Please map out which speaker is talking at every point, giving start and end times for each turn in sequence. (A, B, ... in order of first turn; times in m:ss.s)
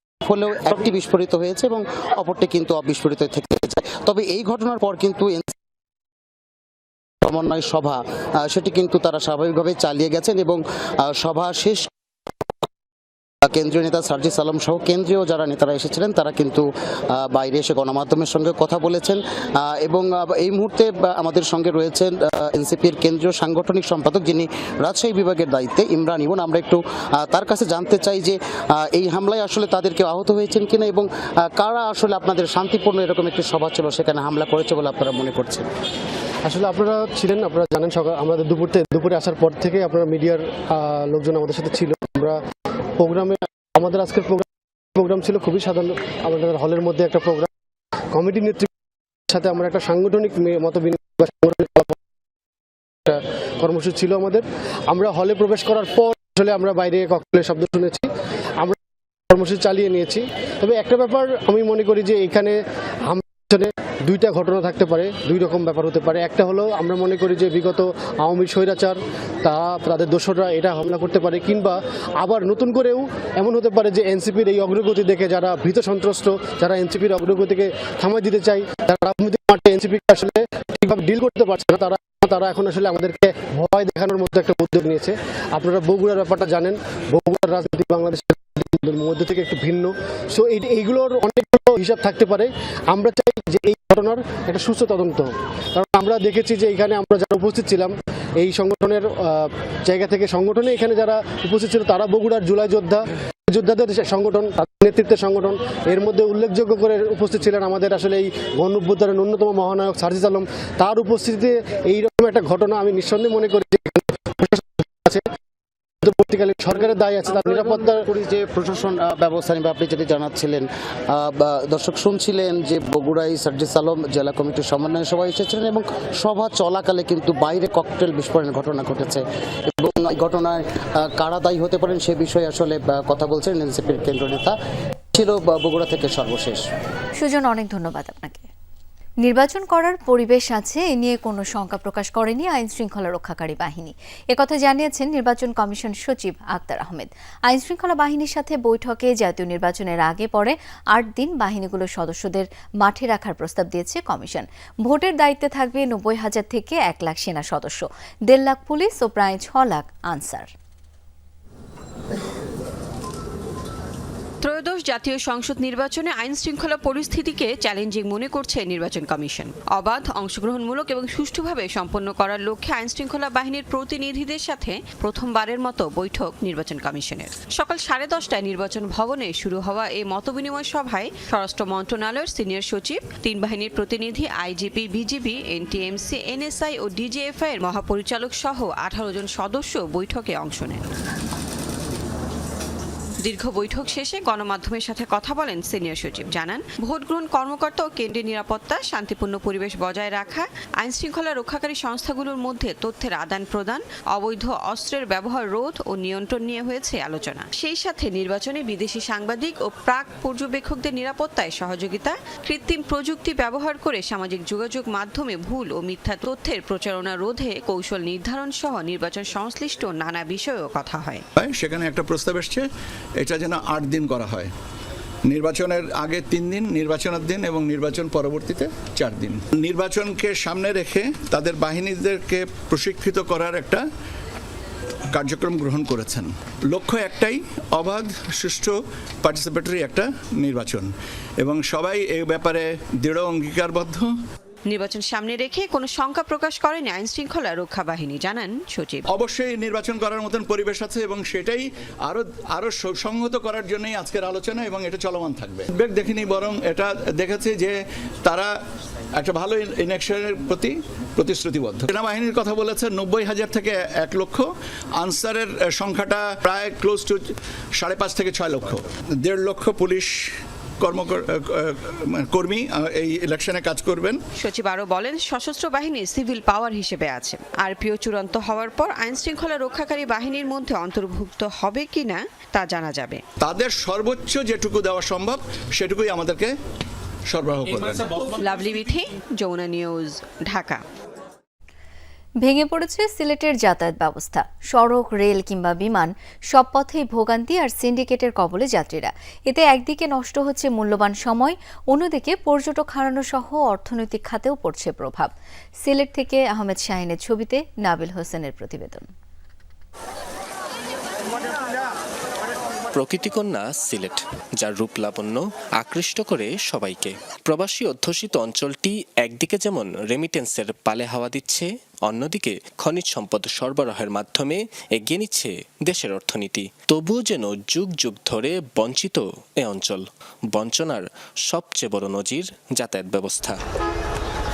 0:00.2-0:05.5 A
0:07.2-0:11.9 A
0:13.4-0:35.6 A
0:36.4-0:42.4 B
0:43.0-0:44.4 B
0:45.0-0:47.5 B
0:48.1-0:48.7 B
0:49.3-0:52.0 B
0:53.0-0:58.1 B
0:59.3-1:55.2 B
1:56.0-1:58.0 B
1:57.2-2:09.2 A
2:09.7-2:14.5 A
2:15.1-2:16.6 A
2:17.2-2:18.5 C
2:19.2-2:40.5 C
2:44.4-3:10.9 D
3:13.2-3:41.2 D
3:41.4-3:44.5 E
3:45.3-3:53.8 E
3:55.1-4:04.1 E
4:04.7-4:09.0 D
4:09.1-4:18.5 E
4:19.2-4:34.2 E
4:34.4-4:43.2 D
4:43.4-4:46.5 E
4:47.3-4:48.2 E
4:48.4-4:50.8 D
4:52.4-5:05.3 C
5:05.8-5:09.1 C
5:12.9-5:33.6 F